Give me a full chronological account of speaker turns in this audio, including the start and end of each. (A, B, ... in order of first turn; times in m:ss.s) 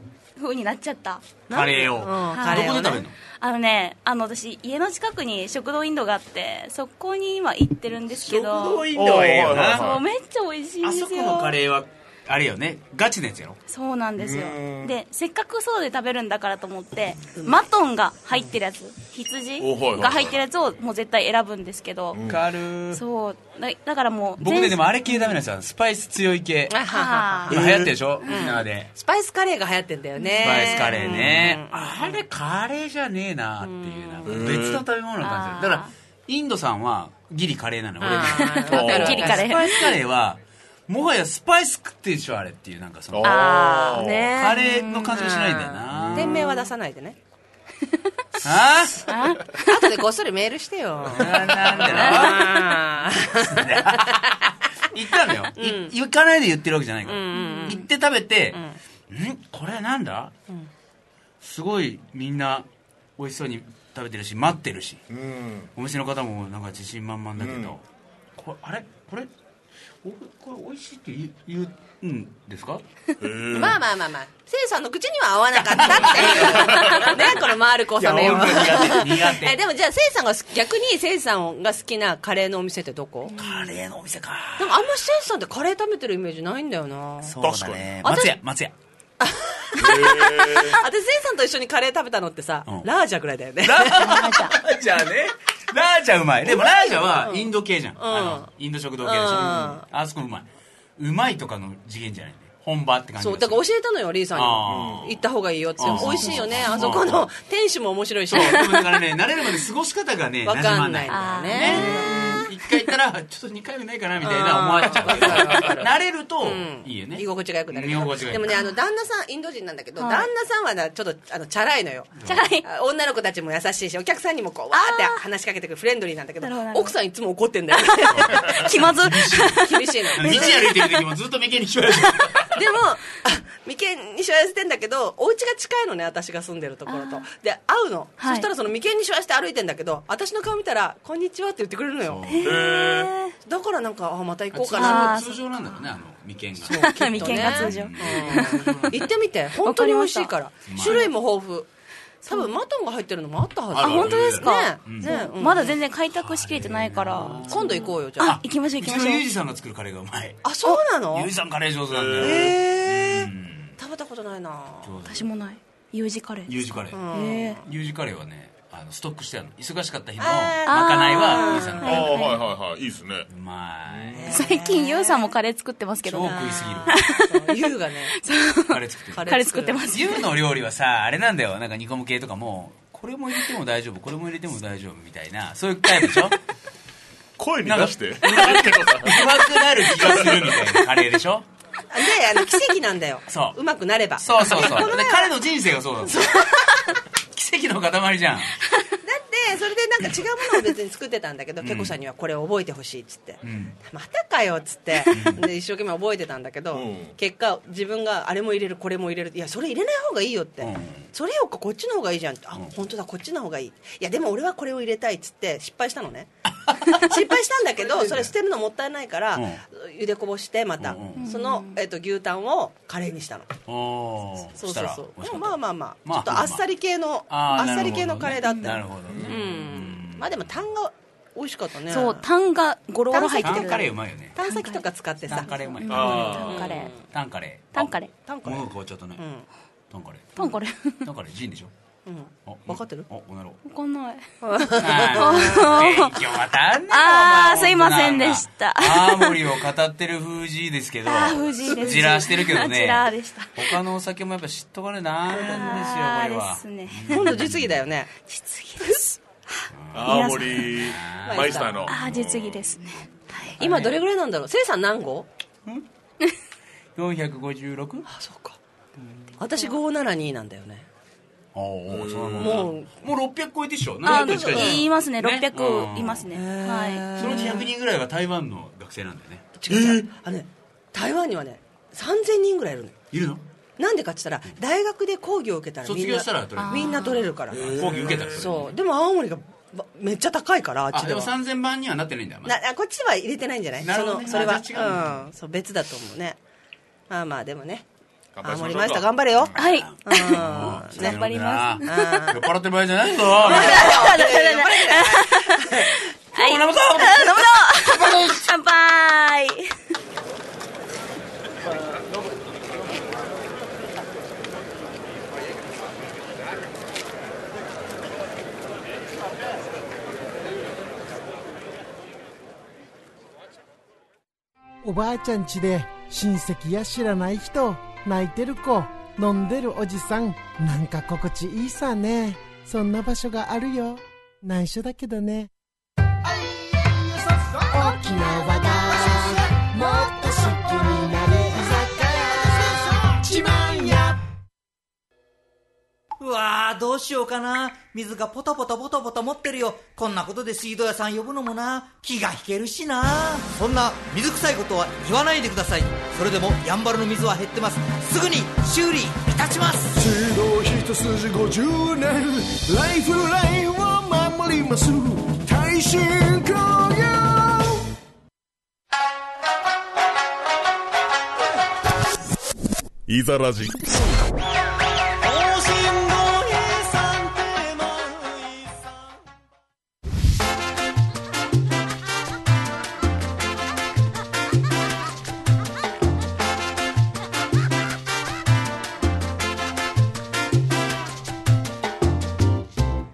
0:00.4-0:01.2 A
0:01.5-0:03.0 B
0:01.5-0:03.2 C
0:02.3-0:08.8 A
0:08.2-0:09.9 C
0:08.9-0:10.0 D
0:09.7-0:11.6 A
0:10.8-0:13.6 C
0:13.7-0:22.2 A
0:14.2-0:14.9 D
0:19.6-0:20.4 D
0:22.1-0:22.4 D
0:22.2-0:23.0 C
0:22.9-0:24.8 A
0:24.4-0:26.8 C
0:26.7-0:27.6 B
0:26.9-0:27.6 A
0:27.5-0:28.9 C
0:27.5-0:27.9 D
0:28.2-0:32.2 B
0:30.2-0:30.9 A
0:30.4-0:43.4 C
0:33.6-0:34.5 B
0:34.2-0:34.8 D
0:35.2-0:35.9 A
0:38.0-0:40.0 B
0:38.1-0:39.9 A
0:38.7-0:39.4 D
0:43.1-0:44.3 D
0:43.2-0:47.2 B
0:43.7-0:44.0 A
0:44.4-0:46.5 C
0:46.2-0:46.7 A
0:48.4-0:49.0 C
0:49.1-0:49.7 A
0:49.6-0:54.3 B
0:51.1-0:52.8 C
0:53.4-0:54.2 C
0:54.9-0:58.6 C
0:55.6-0:55.9 B
0:57.0-0:57.8 B
0:57.3-0:57.8 A
0:59.1-1:00.3 C
1:01.4-1:02.6 C
1:03.2-1:05.0 C
1:05.1-1:05.7 D
1:05.7-1:07.8 C
1:07.4-1:07.8 D
1:08.4-1:09.3 C
1:10.0-1:12.8 C
1:13.2-1:13.8 D
1:13.5-1:23.5 B
1:15.6-1:17.2 C
1:16.5-1:17.0 D
1:18.0-1:19.6 C
1:23.4-1:24.8 C
1:24.6-1:27.3 B
1:27.2-1:28.7 C
1:27.4-1:28.0 D
1:29.2-1:34.3 B
1:29.8-1:30.8 D
1:33.6-1:43.6 C
1:34.0-1:34.5 A
1:36.4-1:39.8 B
1:43.2-1:49.0 B
1:44.3-1:45.1 C
1:44.7-1:45.2 D
1:45.8-1:47.2 C
1:45.9-1:47.0 D
1:48.3-1:58.5 C
1:50.4-1:52.4 B
1:51.1-1:52.4 A
1:54.2-2:02.1 B
2:00.0-2:00.3 A
2:02.1-2:02.4 C
2:02.2-2:02.6 A
2:02.6-2:08.6 B
2:04.7-2:05.2 A
2:06.4-2:06.9 A
2:07.8-2:10.5 A
2:08.1-2:12.5 C
2:09.6-2:10.8 B
2:12.5-2:22.3 B
2:16.9-2:17.2 A
2:18.2-2:18.5 A
2:22.1-2:22.6 C
2:22.3-2:23.3 A
2:22.4-2:23.1 D
2:23.4-2:25.2 B
2:24.5-2:29.0 C
2:24.8-2:25.8 A
2:26.6-2:31.7 B
2:26.7-2:29.1 A
2:29.6-2:31.1 A
2:30.7-2:31.0 C
2:32.2-2:32.5 A
2:32.3-2:35.7 B
2:33.7-2:35.1 C
2:33.7-2:39.2 A
2:36.1-2:40.4 C
2:37.4-2:38.4 B
2:40.4-2:41.3 B
2:41.1-2:43.7 C
2:41.9-2:42.5 D
2:42.2-2:44.9 B
2:44.8-2:45.2 C
2:45.1-2:46.6 A
2:46.5-2:47.0 C
2:46.9-2:47.6 B
2:47.1-2:47.6 A
2:47.6-2:52.1 C
2:50.2-2:52.2 B
2:50.6-2:52.4 A
2:51.8-2:53.2 D
2:53.3-2:54.3 C
2:53.9-2:54.3 D
2:54.2-2:55.3 B
2:54.3-2:56.3 A
2:56.1-2:58.1 B
2:56.1-2:57.0 C
2:56.9-3:00.2 A
2:58.7-2:59.3 C
2:59.1-3:00.0 B
2:59.9-3:06.4 C
3:07.4-3:09.2 D
3:07.6-3:11.4 C
3:10.1-3:10.6 D
3:11.9-3:15.3 B
3:13.3-3:13.6 C
3:14.2-3:16.3 C
3:16.0-3:17.0 B
3:17.3-3:18.5 C
3:19.0-3:36.3 B
3:21.6-3:21.9 C
3:23.4-3:23.8 C
3:25.1-3:25.4 C
3:26.7-3:27.2 D
3:30.6-3:31.1 C
3:36.5-3:37.2 C
3:36.9-3:43.5 B
3:37.7-3:38.3 C
3:39.3-3:39.6 C
3:40.8-3:41.3 C
3:41.2-3:41.8 A
3:43.7-3:46.6 C
3:44.6-3:52.2 B
3:47.3-3:50.2 C
3:49.1-3:49.4 D
3:51.9-3:53.9 A
3:53.1-3:56.9 B
3:53.4-3:54.4 C
3:54.4-3:56.9 A
3:55.3-3:59.2 C
3:55.9-3:56.7 D
3:57.7-3:58.1 A
3:58.2-3:59.4 B
3:59.9-4:00.4 C
4:00.4-4:01.0 A
4:01.0-4:01.7 C
4:02.0-4:03.1 B
4:02.4-4:03.6 C
4:03.6-4:04.2 A
4:04.4-4:05.8 B
4:04.8-4:13.0 C
4:05.1-4:06.1 A
4:06.9-4:09.5 A
4:11.0-4:13.8 A
4:13.5-4:17.7 C
4:15.3-4:17.4 A
4:15.4-4:15.8 B
4:17.1-4:18.1 B
4:18.3-4:20.8 A
4:19.7-4:22.5 C
4:19.9-4:22.2 D
4:21.3-4:21.9 B
4:21.9-4:23.6 A
4:23.6-4:25.3 B
4:23.6-4:23.9 C
4:27.0-4:28.0 C
4:28.1-4:28.6 B
4:29.4-4:30.9 B
4:31.5-4:36.3 C
4:31.9-4:32.7 D
4:32.4-4:32.9 B
4:34.0-4:34.8 B
4:34.0-4:37.3 A
4:36.3-4:37.7 B
4:37.2-4:39.4 C
4:39.6-4:43.0 B
4:39.7-4:40.1 D
4:43.1-4:43.4 C
4:43.8-4:47.8 B
4:45.8-4:48.7 C
4:46.6-4:47.2 A
4:47.5-4:48.6 D
4:48.4-4:51.3 B
4:50.9-4:52.5 C
4:52.4-4:56.4 B
4:53.8-4:55.2 C
4:57.1-4:57.8 B
4:58.4-4:59.1 D
4:58.4-5:01.2 B
4:59.5-5:04.1 C
4:59.6-5:02.3 A
5:01.8-5:02.4 B
5:03.2-5:06.0 B
5:03.4-5:09.7 A
5:06.3-5:08.4 C
5:24.8-5:35.5 E
5:36.2-5:38.0 F
5:37.7-5:44.2 E
5:38.6-5:40.5 F
5:41.6-5:43.1 F
5:46.2-6:00.0 G
6:00.0-6:07.8 F
6:13.1-6:13.8 D
6:15.4-6:17.2 F